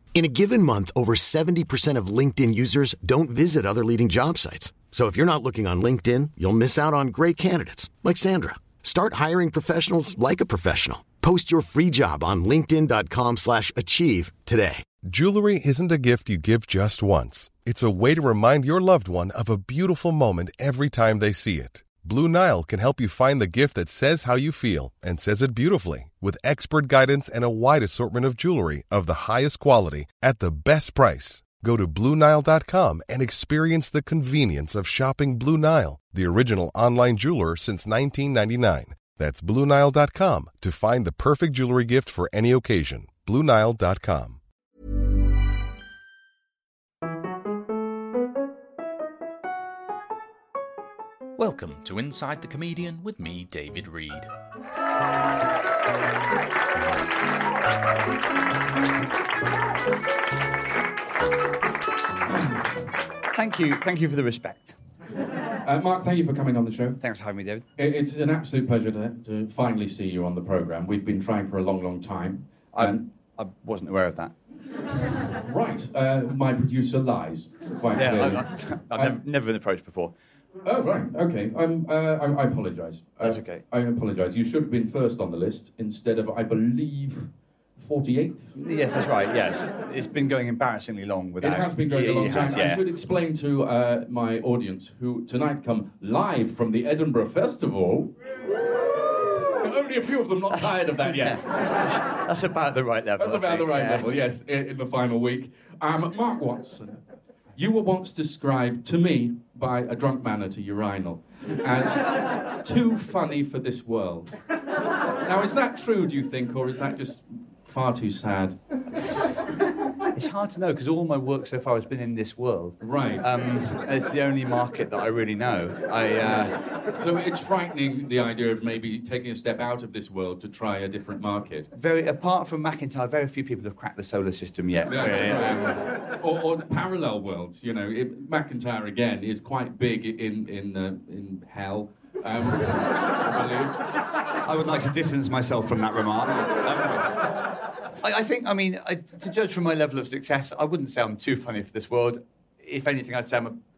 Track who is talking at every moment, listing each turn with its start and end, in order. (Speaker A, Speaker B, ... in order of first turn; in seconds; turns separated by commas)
Speaker A: 0.1-14.9, Speaker B: 15.0-44.4, Speaker C: 51.4-54.3, Speaker D: 63.3-64.8, Speaker E: 65.6-67.0, Speaker D: 67.0-67.7, Speaker E: 67.8-73.0, Speaker D: 72.7-74.3, Speaker E: 75.3-79.2, Speaker D: 77.9-80.2, Speaker E: 80.7-88.6, Speaker D: 83.2-83.6, Speaker D: 88.5-92.8, Speaker E: 91.4-98.1, Speaker E: 99.4-101.5, Speaker D: 100.5-104.2, Speaker E: 103.2-107.0, Speaker E: 107.6-114.3, Speaker E: 115.2-118.6, Speaker D: 120.2-126.6, Speaker E: 122.8-123.2, Speaker E: 126.9-131.7, Speaker D: 131.7-135.8, Speaker E: 134.8-143.8, Speaker D: 144.4-147.3, Speaker D: 148.0-153.6